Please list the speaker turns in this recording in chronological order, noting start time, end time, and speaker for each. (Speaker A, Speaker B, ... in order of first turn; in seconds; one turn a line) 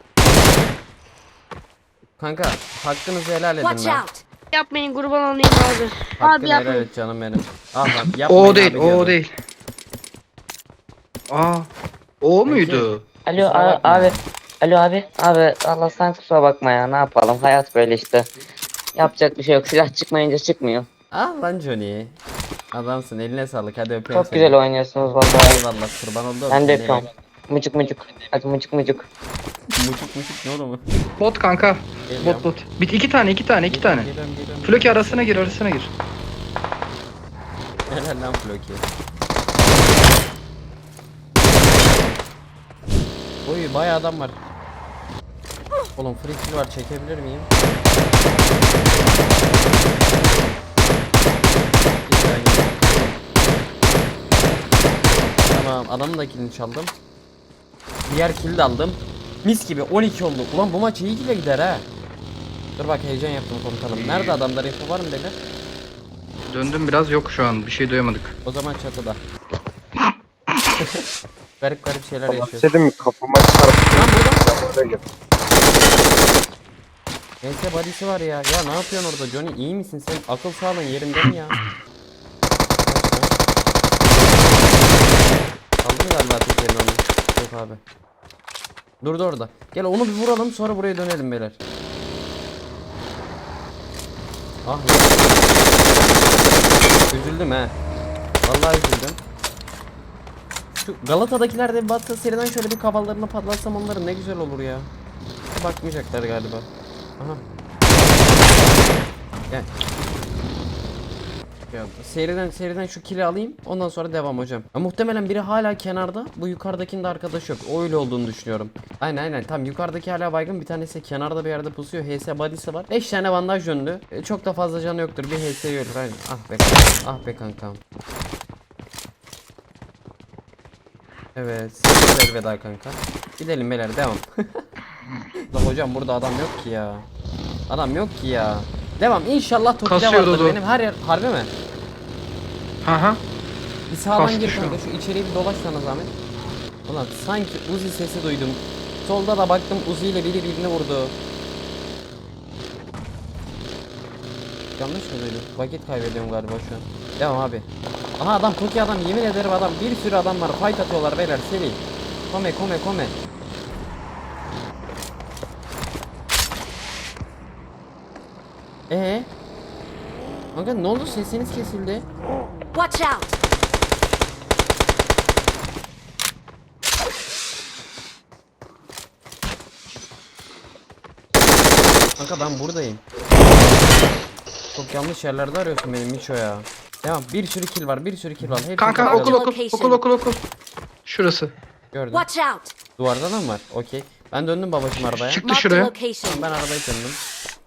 Speaker A: 2.2-4.0
Speaker B: 3.6-4.2
Speaker C: 4.5-6.8
Speaker A: 6.2-9.2
Speaker D: 8.2-9.3
Speaker D: 11.3-11.7
Speaker D: 12.2-13.1
Speaker A: 12.4-14.2
Speaker E: 13.2-18.3
Speaker E: 18.9-20.9
Speaker A: 21.1-22.1
Speaker A: 22.7-24.6
Speaker E: 24.1-25.6
Speaker A: 25.3-27.1
Speaker E: 26.5-29.1
Speaker A: 29.7-30.8
Speaker D: 31.2-34.1
Speaker A: 32.1-32.5
Speaker A: 33.7-35.6
Speaker D: 34.6-35.9
Speaker A: 37.9-38.9
Speaker A: 43.4-44.4
Speaker A: 46.0-47.5
Speaker A: 52.0-53.2
Speaker A: 55.5-56.9
Speaker A: 58.0-61.9
Speaker A: 62.8-65.4
Speaker D: 63.9-64.4
Speaker D: 66.5-68.3
Speaker A: 68.4-69.2
Speaker A: 71.6-72.7
Speaker F: 72.3-75.0
Speaker A: 73.9-74.5
Speaker A: 77.4-81.6
Speaker A: 82.8-83.3
Speaker A: 85.8-87.8
Speaker A: 89.0-91.6
Speaker A: 94.6-95.4
Speaker A: 97.1-97.7
Speaker A: 98.4-99.2
Speaker A: 100.8-104.9
Speaker A: 105.5-106.7
Speaker A: 111.7-127.8
Speaker A: 131.3-134.6
Speaker A: 135.5-137.1
Speaker A: 137.7-141.5
Speaker D: 139.8-140.6
Speaker D: 142.8-143.2
Speaker A: 143.9-146.1
Speaker D: 144.1-144.8
Speaker A: 146.8-151.2
Speaker A: 154.8-157.7
Speaker A: 158.2-163.1
Speaker A: 168.9-169.3
Speaker A: 170.5-172.0
Speaker B: 172.7-173.4
Speaker A: 182.2-183.0
Speaker A: 184.7-189.4
Speaker D: 188.8-190.4
Speaker B: 189.0-190.0
Speaker D: 191.1-191.5
Speaker A: 191.9-192.3
Speaker B: 192.1-192.7
Speaker A: 193.0-195.4
Speaker D: 195.1-195.9
Speaker B: 195.4-196.5
Speaker A: 196.2-197.2